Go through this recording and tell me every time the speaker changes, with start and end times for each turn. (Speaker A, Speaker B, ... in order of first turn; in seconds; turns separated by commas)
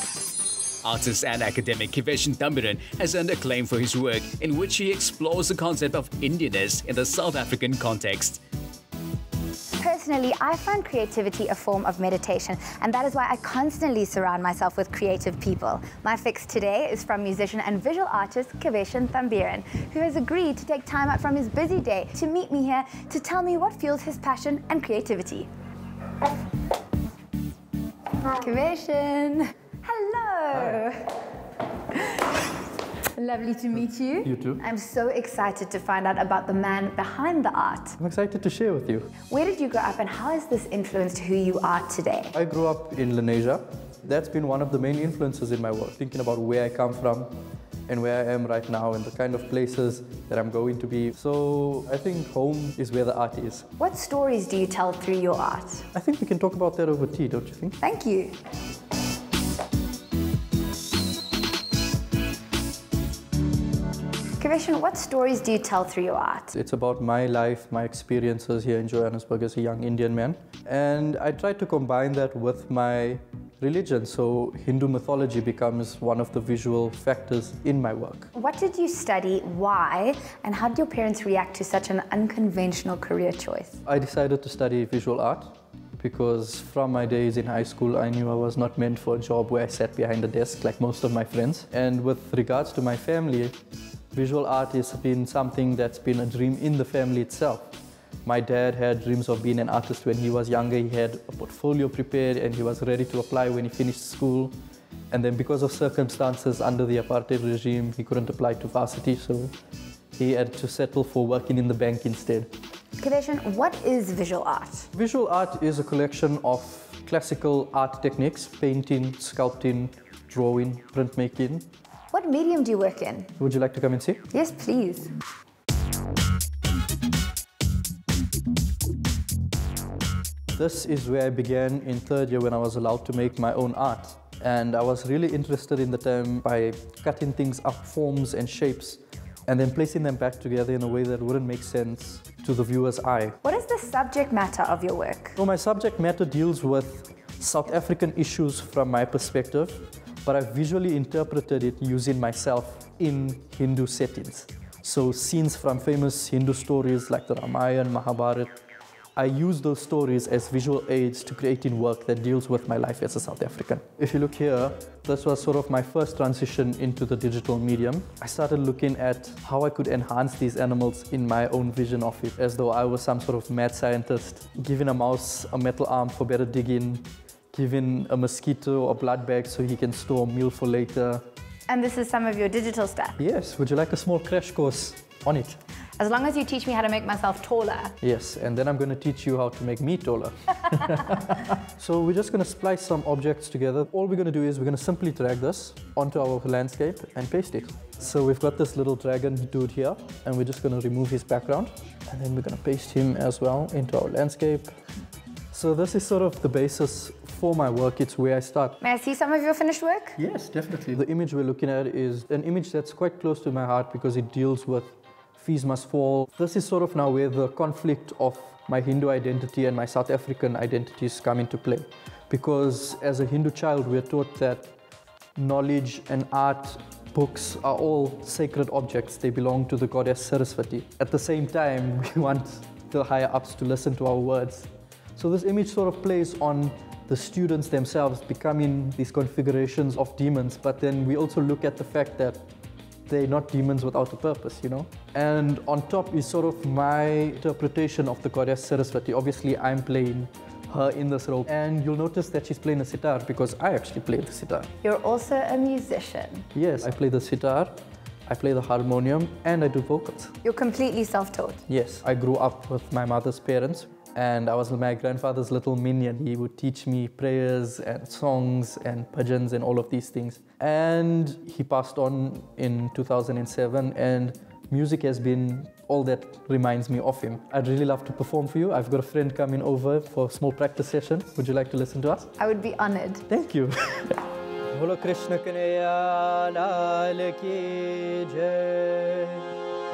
Speaker A: 0.8-8.4, Speaker B: 9.8-25.5, Speaker B: 28.3-31.1, Speaker C: 30.5-30.8, Speaker B: 31.9-32.3, Speaker B: 33.1-38.0, Speaker C: 34.2-34.6, Speaker C: 38.0-39.1, Speaker B: 39.3-42.3, Speaker C: 42.3-47.3, Speaker C: 47.9-53.6, Speaker B: 53.8-55.9, Speaker C: 55.9-57.8, Speaker B: 57.8-58.4, Speaker B: 64.4-66.5, Speaker C: 66.5-78.3, Speaker B: 78.3-83.8, Speaker C: 83.8-93.5, Speaker C: 94.1-104.5, Speaker C: 105.1-109.5, Speaker C: 110.2-112.5, Speaker B: 113.0-114.9, Speaker C: 114.9-121.7, Speaker B: 122.1-123.3, Speaker C: 123.4-124.2, Speaker B: 124.3-125.1, Speaker C: 130.5-143.4, Speaker B: 143.4-145.4, Speaker C: 145.4-158.5, Speaker C: 159.2-181.2, Speaker B: 181.7-183.2, Speaker C: 183.2-185.6, Speaker B: 186.0-187.9, Speaker C: 188.0-204.7, Speaker C: 205.5-208.8, Speaker B: 208.8-210.2, Speaker C: 210.2-224.7, Speaker C: 225.3-242.4, Speaker C: 243.1-254.7, Speaker B: 254.8-256.5, Speaker C: 256.5-257.7, Speaker C: 258.3-260.3, Speaker B: 260.4-261.6, Speaker C: 261.7-282.3, Speaker B: 282.4-283.2, Speaker C: 283.3-284.2, Speaker C: 284.7-289.4